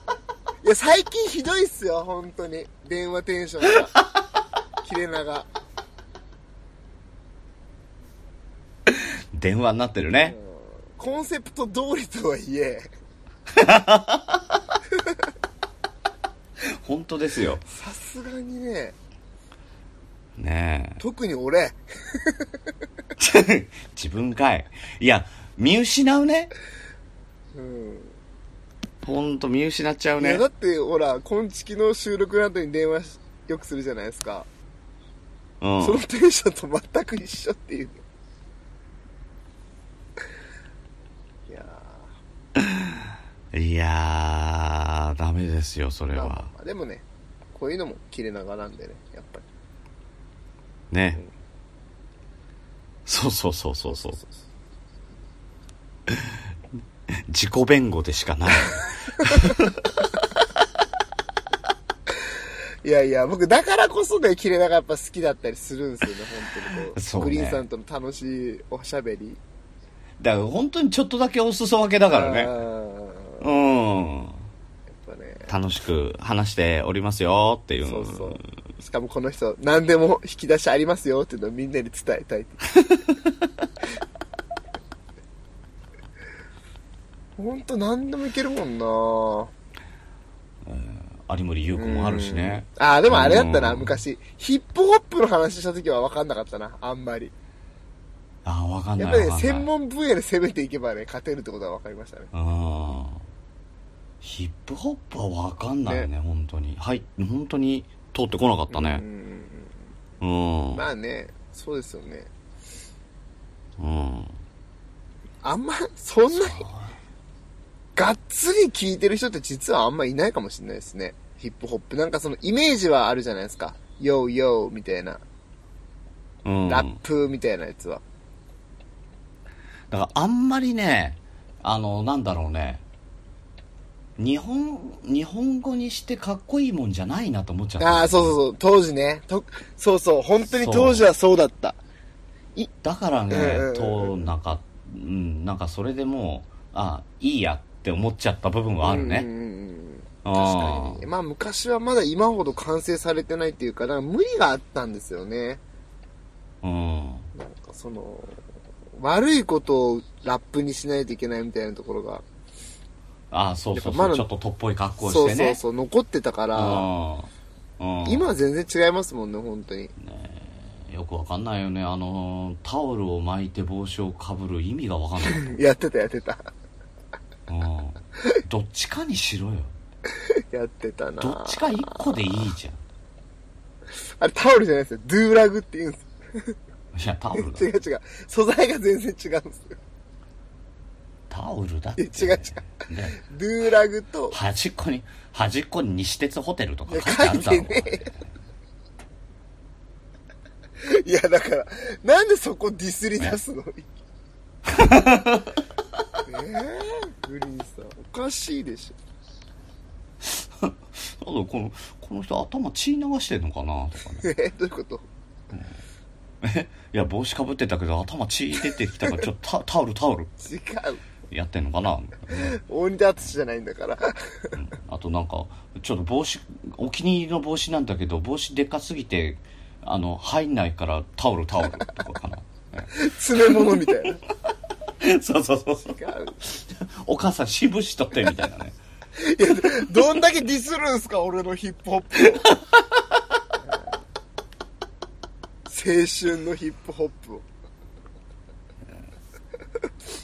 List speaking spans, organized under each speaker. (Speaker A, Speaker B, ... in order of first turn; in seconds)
Speaker A: 0.6-4.0, 4.8-5.5, 10.2-12.9, 17.7-19.0, 21.0-22.5, 27.5-28.1, 30.2-34.5, 35.8-38.0, 41.5-42.1, 46.1-49.4, 54.0-54.4, 59.2-59.6, 62.8-69.4, 72.1-73.4, 75.0-75.5, 77.8-82.6, 87.4-89.5, 91.8-97.3, 99.0-102.3, 108.7-109.8, 110.7-112.3, 115.4-116.7, 118.0-125.2, 126.7-128.0, 137.8-141.8, 143.3-144.3, 148.8-155.6, 157.3-158.4, 159.0-162.2, 163.7-164.3, 165.0-166.9, 168.0-169.9, 175.2-176.5, 180.1-182.0, 184.0-186.5, 187.3-189.8, 192.0-194.4, 196.9-198.1, 200.8-203.9, 206.2-209.0, 214.2-215.1, 220.4-221.0, 222.3-224.6, 232.9-234.2, 235.8-236.4, 239.2-242.5, 245.7-247.5
Speaker B: 8.9-10.4, 13.5-14.6, 16.6-17.6, 20.4-21.0, 23.2-26.5, 29.0-30.4, 35.6-36.0, 42.6-46.5, 50.9-51.2, 53.1-54.2, 56.1-56.4, 57.1-59.9, 67.0-67.6, 70.2-72.5, 73.4-74.4, 75.5-78.4, 82.8-83.3, 90.6-94.0, 98.5-99.7, 102.3-103.2, 104.2-109.0, 110.2-110.8, 113.8-114.3, 116.3-117.0, 126.5-127.0, 129.9-132.8, 134.2-138.4, 140.5-141.1, 142.8-149.3, 150.2-151.1, 156.6-157.3, 163.3-165.6, 166.6-168.4, 170.0-175.6, 177.5-179.7, 181.2-182.8, 186.9-187.7, 191.3-193.2, 194.3-198.3, 204.7-205.5, 210.2-214.3, 216.4-220.3, 221.3-222.6, 224.6-234.1, 235.0-238.8, 242.4-243.2